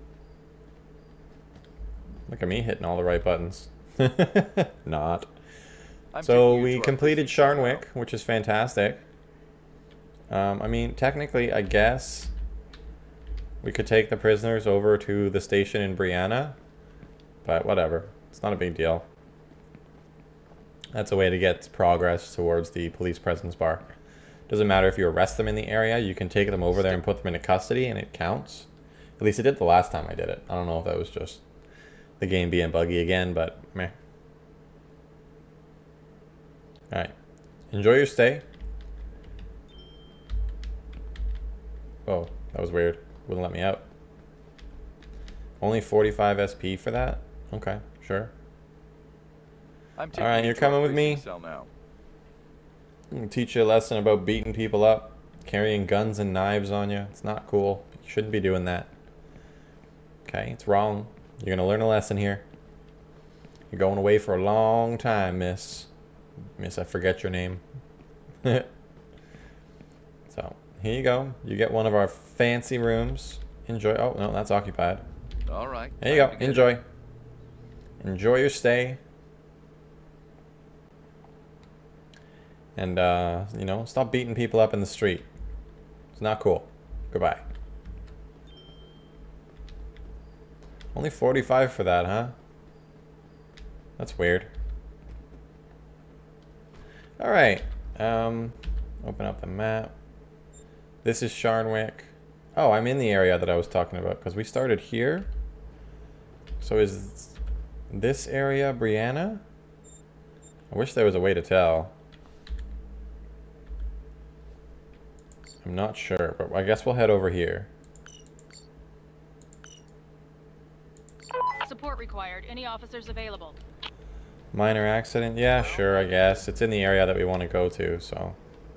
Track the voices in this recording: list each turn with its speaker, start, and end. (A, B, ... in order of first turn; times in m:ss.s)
0:02.3-0:05.3 A
0:06.1-0:07.8 B
0:06.2-0:09.0 A
0:10.3-0:12.3 A
0:13.6-0:16.6 A
0:17.4-0:19.0 A
0:20.9-0:23.9 A
0:24.5-0:28.7 A
0:26.7-0:27.0 B
0:29.2-0:31.4 A
0:32.2-0:33.9 A
0:37.7-0:38.4 A
0:42.1-0:43.8 A
0:45.6-0:48.3 A
0:50.0-0:51.7 B
0:50.2-0:51.2 A
0:53.1-0:58.9 A
1:00.2-1:02.4 A
1:03.7-1:05.9 A
1:06.6-1:07.6 A
1:08.4-1:08.7 A
1:10.3-1:15.0 A
1:15.5-1:16.8 B
1:16.0-1:16.8 A
1:18.0-1:19.0 A
1:22.8-1:25.3 A
1:26.2-1:27.4 A
1:30.9-1:32.3 A
1:34.0-1:34.5 A
1:37.2-1:39.9 A
1:41.0-1:45.3 A
1:46.6-1:47.4 A
1:47.9-1:49.4 A
1:50.7-1:51.9 A
1:55.6-1:57.7 A
2:01.6-2:03.6 C
2:04.5-2:08.4 A
2:05.6-2:06.4 B